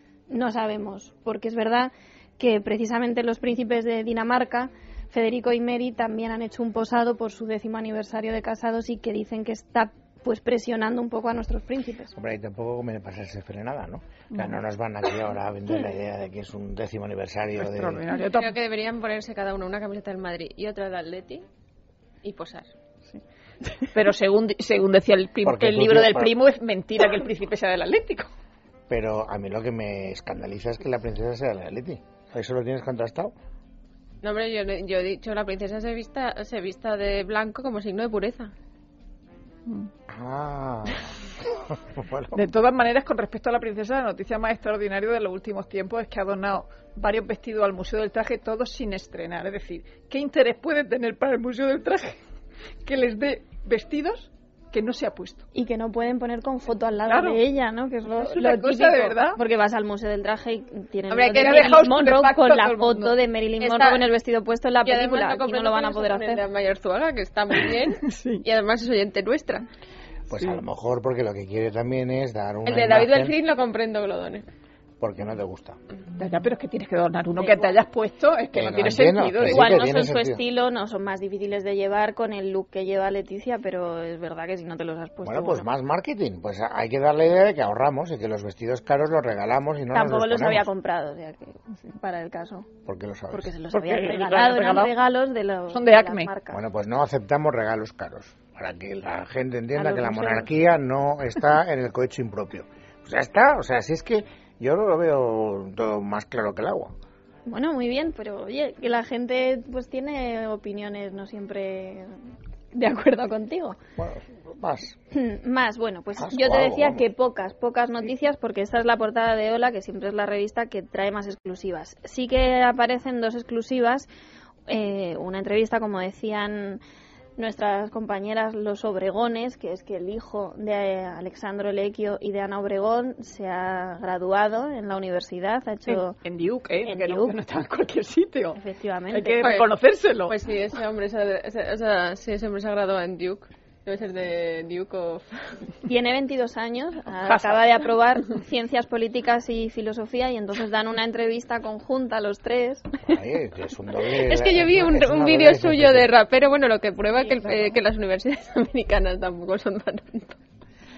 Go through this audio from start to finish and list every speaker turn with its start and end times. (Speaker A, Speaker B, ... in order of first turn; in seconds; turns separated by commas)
Speaker A: 0.3-12.1, Speaker B: 12.2-18.0, Speaker C: 17.6-18.5, Speaker D: 18.2-21.5, Speaker D: 22.2-22.7, Speaker C: 23.8-28.3, Speaker B: 25.4-26.4, Speaker B: 28.9-33.3, Speaker D: 34.2-38.5, Speaker B: 40.1-42.5, Speaker C: 42.3-52.2, Speaker C: 52.8-55.5, Speaker A: 55.5-66.4, Speaker C: 57.1-57.4, Speaker C: 58.2-59.4, Speaker D: 61.1-61.9, Speaker C: 61.4-63.2, Speaker D: 63.6-64.1, Speaker D: 64.8-69.7, Speaker C: 68.0-68.4, Speaker B: 70.3-73.3, Speaker D: 72.7-74.5, Speaker B: 75.0-75.8, Speaker C: 76.2-79.8, Speaker D: 77.4-77.8, Speaker B: 78.5-80.4, Speaker A: 79.4-85.7, Speaker B: 85.2-90.7, Speaker A: 89.9-92.7, Speaker B: 92.9-93.5, Speaker A: 93.3-96.6, Speaker C: 93.7-94.9, Speaker C: 95.7-96.3, Speaker B: 96.5-106.9, Speaker A: 99.8-100.5, Speaker A: 107.5-112.2, Speaker A: 112.7-113.8, Speaker B: 114.0-115.0, Speaker A: 115.1-124.1, Speaker B: 116.2-117.1, Speaker A: 124.7-126.8, Speaker A: 127.4-136.2, Speaker C: 135.9-138.6, Speaker A: 136.8-137.4, Speaker A: 138.6-139.5, Speaker C: 139.1-140.3, Speaker D: 139.4-139.7, Speaker D: 140.3-145.6, Speaker A: 145.9-152.9, Speaker C: 147.2-147.6, Speaker B: 153.0-156.1, Speaker D: 154.1-160.4